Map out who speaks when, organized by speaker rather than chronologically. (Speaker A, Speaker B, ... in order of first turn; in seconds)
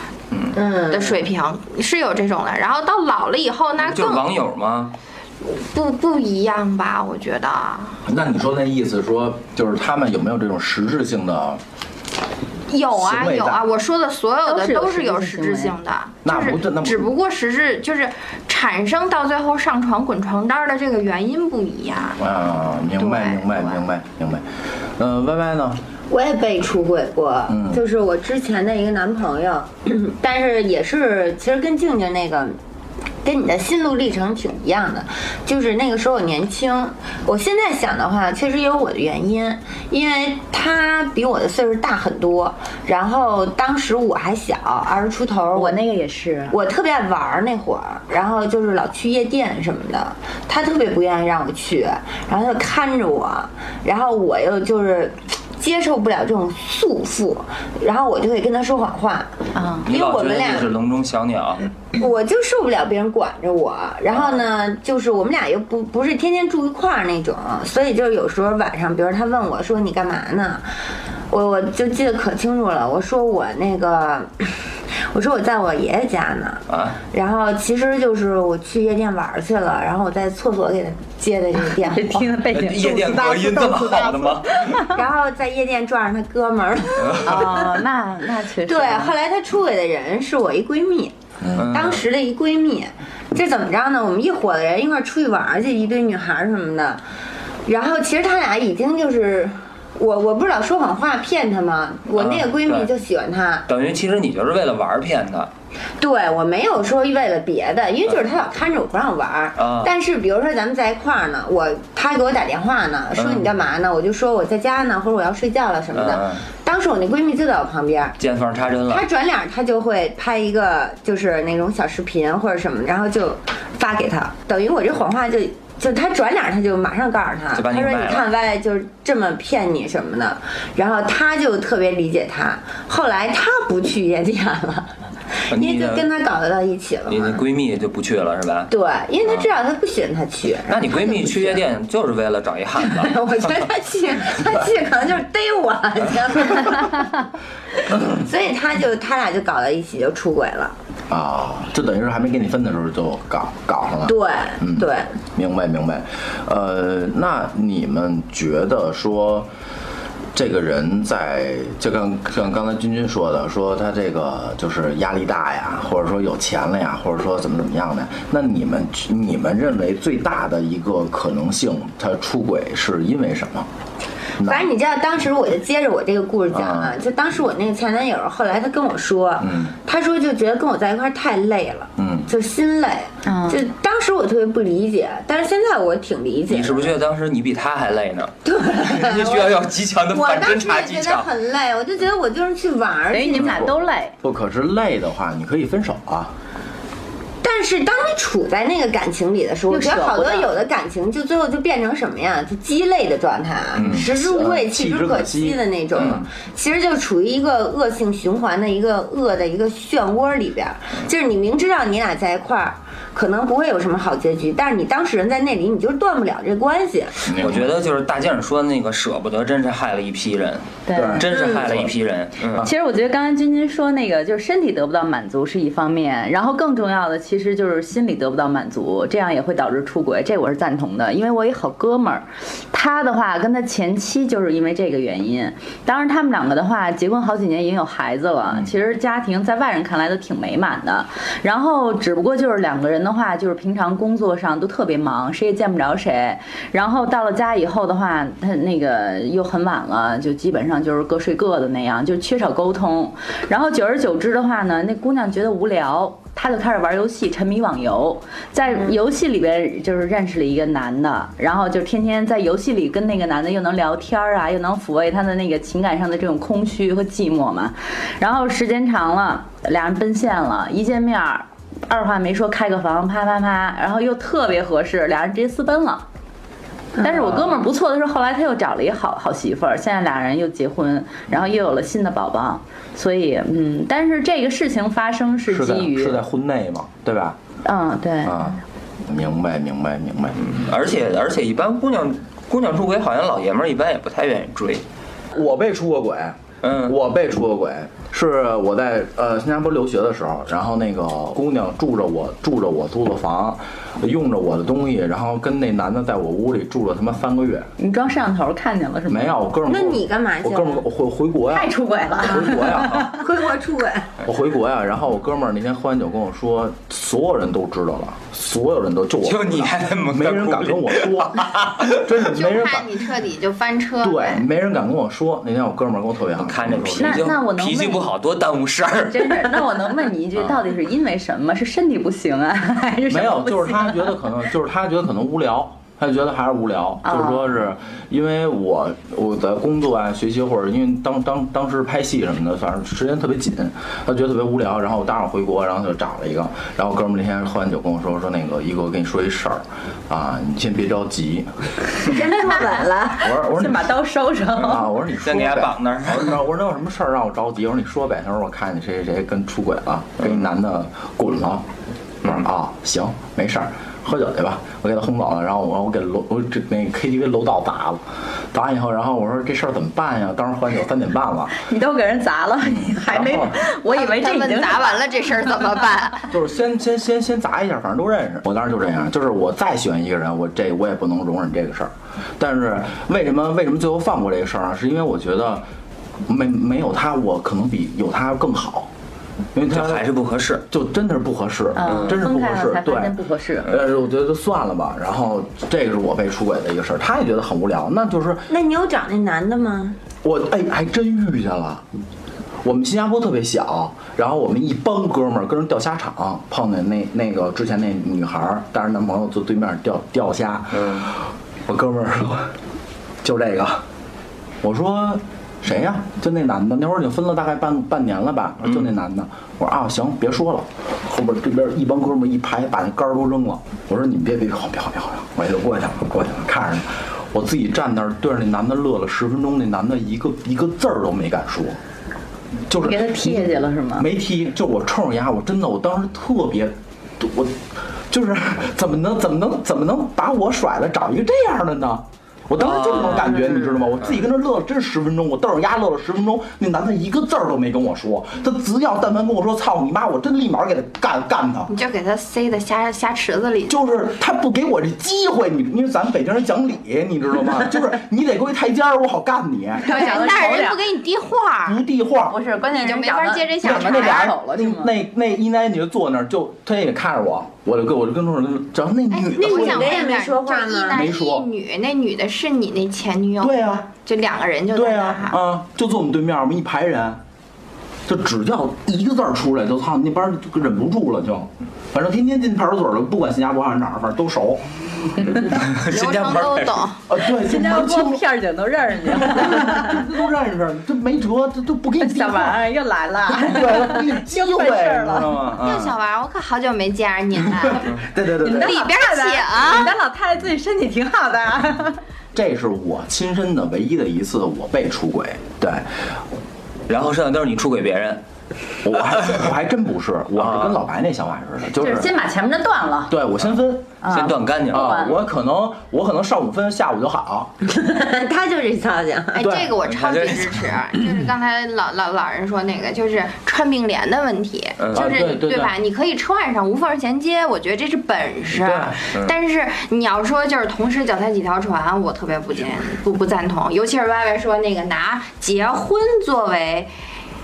Speaker A: 0.5-1.2, 26.1-32.6, 33.2-45.8, 46.5-59.3, 59.9-60.7, 62.0-70.7, 71.3-74.5, 75.1-82.3, 83.4-83.8, 84.7-87.8, 88.6-97.0, 97.7-103.7, 106.0-118.2, 118.9-134.9, 135.5-137.4, 138.7-141.6, 142.8-147.2, 147.9-150.8, 154.1-155.1, 174.4-187.0, 188.4-193.7, 197.4-217.3, 221.3-221.7, 309.7-310.8, 312.4-314.1, 352.1-353.1, 398.5-400.0, 469.4-471.1, 517.6-519.5
Speaker B: 0.9-4.3, 5.4-8.0, 12.7-22.2, 23.0-23.8, 322.3-324.4, 373.9-376.3, 451.7-453.8, 459.8-461.8, 462.6-464.3, 469.1-475.4, 485.8-487.0, 495.6-500.0, 519.3-536.9
Speaker C: 3.8-4.9, 59.9-61.7, 64.1-64.4, 76.7-77.0, 82.5-84.7, 87.0-87.4, 91.5-92.0, 102.1-102.9, 103.7-105.5, 108.0-108.4, 109.6-109.9, 113.2-113.5, 115.9-116.4, 118.2-119.1, 127.5-128.3, 135.5-136.1, 137.1-138.7, 139.2-139.5, 140.7-143.6, 186.5-191.3, 205.9-206.2, 217.4-222.7, 290.4-294.8, 296.6-297.0, 319.2-322.1, 326.4-329.5, 355.2-356.4, 389.7-390.6, 391.8-392.2, 410.7-411.1, 442.6-443.5, 485.4-486.9, 506.9-508.2, 510.4-510.8, 514.1-515.0, 519.8-520.6, 524.8-525.1
Speaker D: 8.1-11.6, 12.9-13.6, 16.2-17.1, 22.2-24.4, 25.0-25.8, 27.5-27.8, 91.4-91.7, 151.1-159.5, 160.3-173.7, 174.4-174.7, 176.5-177.0, 179.4-179.7, 182.0-182.3, 193.3-196.3, 203.8-206.2, 217.2-217.7, 220.9-221.9, 285.5-287.4, 288.2-290.7, 295.3-307.7, 309.1-313.1, 314.2-322.9, 324.0-327.3, 333.1-351.5, 353.2-353.9, 354.5-361.6, 362.2-371.6, 372.7-373.6, 376.3-385.7, 386.3-388.9, 389.5-390.0, 390.7-398.5, 400.2-401.8, 402.6-412.6, 413.2-413.8, 414.6-431.8, 432.7-451.7, 453.7-460.0, 461.7-462.4, 463.6-470.0, 470.9-471.5, 473.4-473.9, 474.7-477.2, 478.1-485.4, 487.1-488.3, 489.1-492.6, 493.3-496.0, 497.4-498.8, 502.3-505.9, 508.8-512.1, 513.1-514.0, 514.7-517.5, 519.4-519.8, 524.9-525.7, 528.5-529.0
Speaker E: 14.5-15.8, 45.5-46.6, 59.5-59.9, 81.8-83.3, 84.5-84.9, 87.2-89.2, 183.2-183.6, 193.1-194.2, 199.7-200.6, 220.9-221.2, 222.6-276.0, 277.0-286.2, 287.6-288.6, 307.8-309.4, 311.5-313.2, 327.0-328.1, 329.1-334.2, 337.0-337.5, 352.1-354.9, 371.6-375.0, 391.8-393.7, 432.8-434.1, 459.8-460.8, 462.3-465.0, 487.2-490.1, 492.0-495.4, 498.4-502.0, 511.8-513.2, 514.0-515.2